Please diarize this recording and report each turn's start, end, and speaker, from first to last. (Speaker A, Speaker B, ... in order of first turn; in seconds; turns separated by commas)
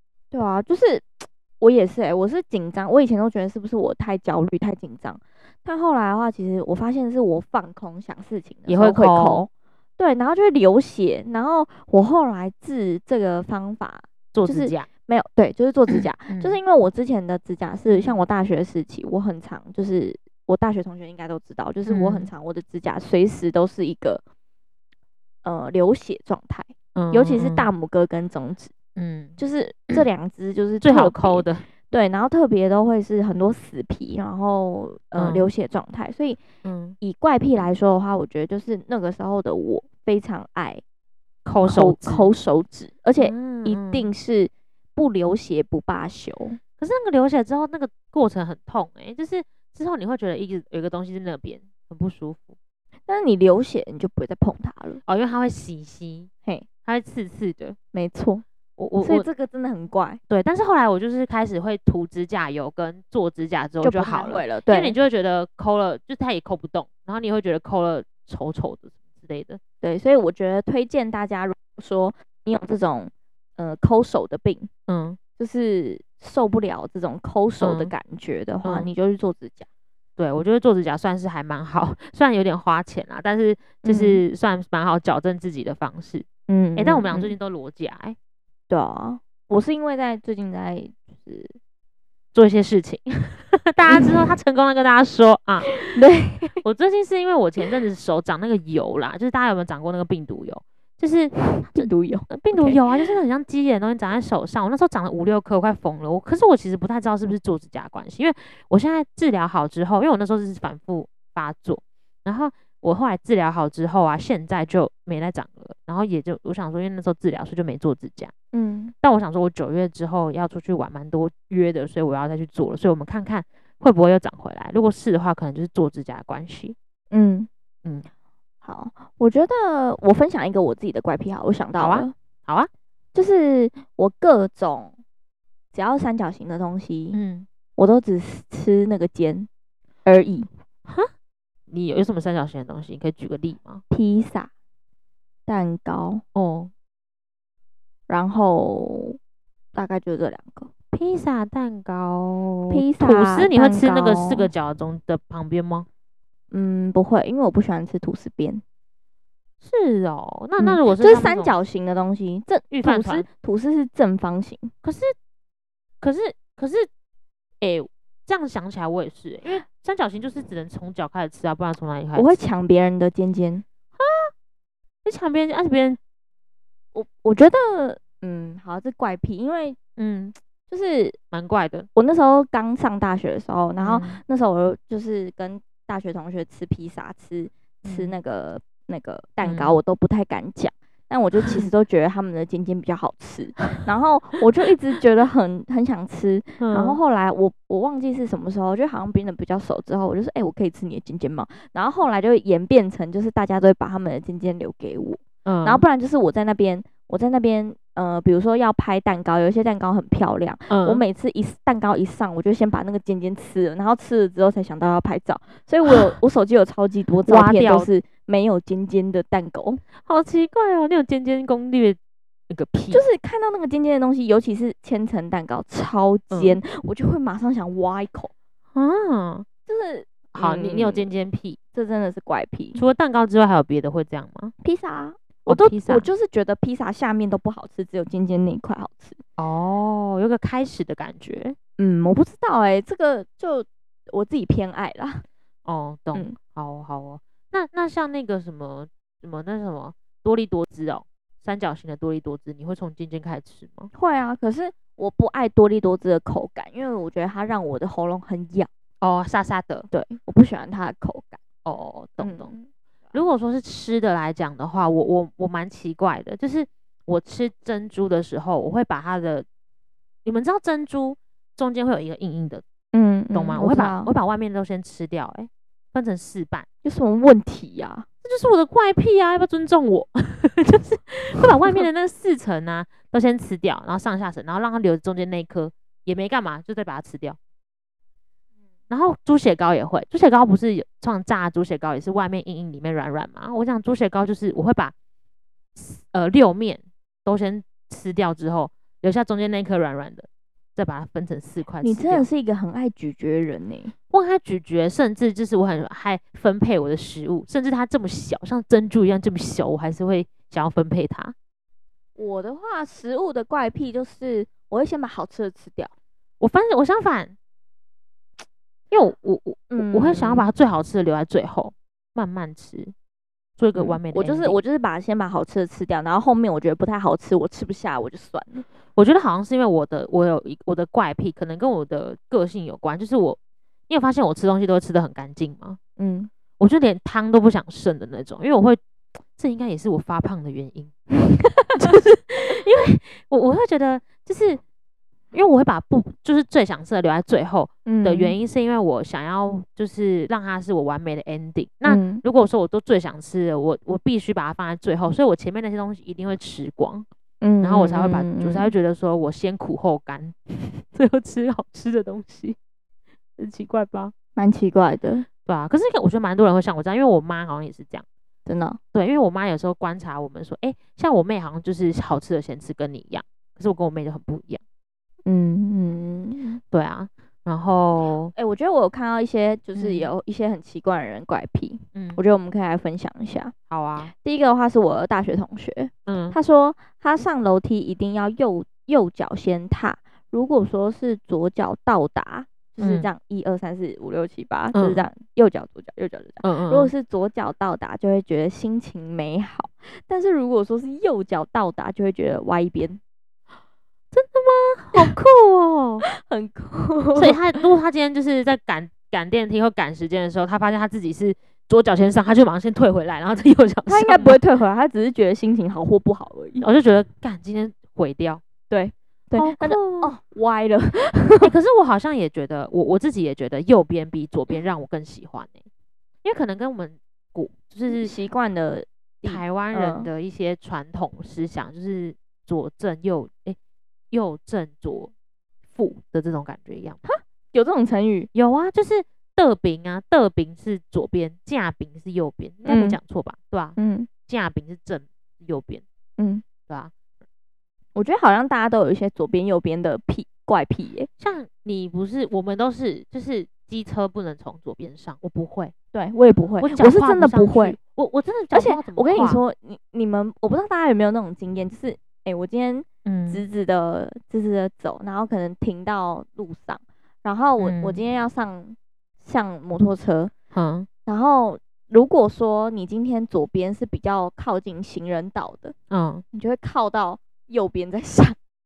Speaker A: 0.3-24.2, Speaker B: 8.7-9.5, Speaker B: 14.3-14.9, Speaker B: 15.9-16.6, Speaker B: 17.9-18.1, Speaker B: 21.9-22.3, Speaker A: 25.4-28.7, Speaker B: 27.0-27.7, Speaker B: 29.0-29.4, Speaker A: 29.4-36.4, Speaker B: 30.8-31.7, Speaker B: 35.2-35.5, Speaker B: 36.6-37.0, Speaker A: 37.0-40.8, Speaker B: 41.5-42.3, Speaker A: 41.6-46.6, Speaker B: 43.2-44.1, Speaker B: 46.8-52.5, Speaker A: 53.1-55.0, Speaker B: 55.0-56.3, Speaker B: 56.9-57.8, Speaker A: 57.9-58.4, Speaker B: 58.8-59.3, Speaker A: 59.0-60.2, Speaker B: 60.3-69.6, Speaker A: 63.8-65.0, Speaker A: 69.8-74.7, Speaker B: 74.9-75.2, Speaker A: 75.4-79.7, Speaker B: 77.6-77.9, Speaker B: 78.6-78.9, Speaker B: 80.2-88.2, Speaker A: 83.8-84.2, Speaker A: 86.5-87.3, Speaker A: 88.7-91.5, Speaker B: 92.3-96.0, Speaker A: 93.9-94.2, Speaker A: 95.8-96.6, Speaker B: 96.6-118.3, Speaker A: 101.6-102.8, Speaker A: 118.5-118.9, Speaker B: 119.0-126.8, Speaker A: 127.1-127.5, Speaker A: 128.6-132.1, Speaker B: 131.8-132.7, Speaker A: 133.1-134.9, Speaker A: 135.7-137.2, Speaker B: 137.1-137.5, Speaker A: 137.8-139.5, Speaker A: 140.1-140.5, Speaker B: 141.7-143.8, Speaker A: 143.9-144.5, Speaker A: 145.5-146.2, Speaker B: 146.3-146.7, Speaker A: 148.1-149.2, Speaker A: 149.8-150.7, Speaker B: 150.9-155.9, Speaker A: 152.7-154.5, Speaker A: 156.5-158.6, Speaker B: 159.6-161.5, Speaker A: 160.6-164.7, Speaker B: 162.7-163.2, Speaker B: 164.8-165.1, Speaker B: 166.0-166.9, Speaker B: 167.6-172.4, Speaker A: 172.1-173.6, Speaker B: 174.0-174.3, Speaker B: 175.1-176.0, Speaker A: 176.9-179.8, Speaker B: 180.0-180.4, Speaker A: 180.7-181.2, Speaker B: 181.3-181.9, Speaker A: 181.9-219.8, Speaker B: 183.8-184.2, Speaker B: 187.8-188.1, Speaker B: 189.4-189.8, Speaker B: 196.6-197.0, Speaker B: 205.5-205.8, Speaker B: 210.7-211.0, Speaker B: 217.2-217.9, Speaker B: 220.0-222.0, Speaker B: 222.5-223.0, Speaker A: 222.9-228.3, Speaker B: 226.3-226.6, Speaker B: 228.8-229.5, Speaker A: 229.7-231.1, Speaker B: 230.3-231.6, Speaker A: 231.7-232.8, Speaker B: 232.8-234.5, Speaker A: 234.6-239.2, Speaker B: 235.5-236.1, Speaker B: 239.4-241.6, Speaker A: 241.8-245.2, Speaker B: 245.6-253.9, Speaker A: 253.9-258.7, Speaker B: 259.0-259.9, Speaker A: 259.9-261.4, Speaker B: 261.6-262.5, Speaker A: 262.2-263.2, Speaker B: 263.1-269.5, Speaker B: 270.2-272.6, Speaker A: 272.9-274.1, Speaker B: 273.3-276.6, Speaker A: 276.8-278.1, Speaker B: 278.2-287.4, Speaker B: 288.9-294.9, Speaker B: 295.8-302.3, Speaker A: 301.8-303.9, Speaker B: 304.1-311.4, Speaker A: 312.2-315.9, Speaker B: 316.4-317.4, Speaker B: 318.9-322.9, Speaker A: 319.7-320.5, Speaker B: 323.6-324.6, Speaker A: 323.8-328.6, Speaker B: 328.9-333.4, Speaker B: 333.9-335.8, Speaker A: 336.0-336.3, Speaker B: 336.6-338.8, Speaker B: 339.4-340.9, Speaker B: 341.7-344.6, Speaker B: 345.3-357.1, Speaker A: 347.9-348.4, Speaker A: 351.9-352.2, Speaker A: 357.4-358.7, Speaker B: 357.6-362.6, Speaker B: 363.4-364.1, Speaker A: 364.4-365.3, Speaker B: 365.4-368.1, Speaker A: 368.5-368.8, Speaker B: 368.9-374.6, Speaker A: 375.2-376.6, Speaker B: 376.7-378.3, Speaker A: 378.4-383.5, Speaker B: 379.8-380.1, Speaker B: 381.9-382.2, Speaker B: 383.7-384.1, Speaker A: 384.1-403.0, Speaker B: 386.1-386.4, Speaker B: 392.8-393.1, Speaker B: 394.7-395.1, Speaker B: 396.4-396.9, Speaker B: 404.1-406.1, Speaker A: 406.1-407.4, Speaker B: 407.1-414.4, Speaker A: 413.9-416.6, Speaker B: 416.6-418.4, Speaker A: 418.7-421.5, Speaker B: 419.4-420.1, Speaker B: 421.4-425.6, Speaker B: 426.2-428.1, Speaker A: 427.9-430.1, Speaker B: 429.2-433.6, Speaker B: 434.1-435.1, Speaker B: 435.7-437.0, Speaker A: 437.0-438.3, Speaker B: 438.3-445.8, Speaker A: 442.6-443.0, Speaker A: 443.8-444.1, Speaker A: 446.2-446.5, Speaker B: 446.6-446.9, Speaker A: 447.9-451.1, Speaker B: 451.2-455.7, Speaker A: 455.9-457.8, Speaker B: 456.6-459.4, Speaker A: 458.5-470.3, Speaker B: 463.1-463.4, Speaker B: 467.6-468.0, Speaker B: 470.5-470.9, Speaker A: 471.1-475.8, Speaker B: 475.9-476.2, Speaker A: 476.3-478.4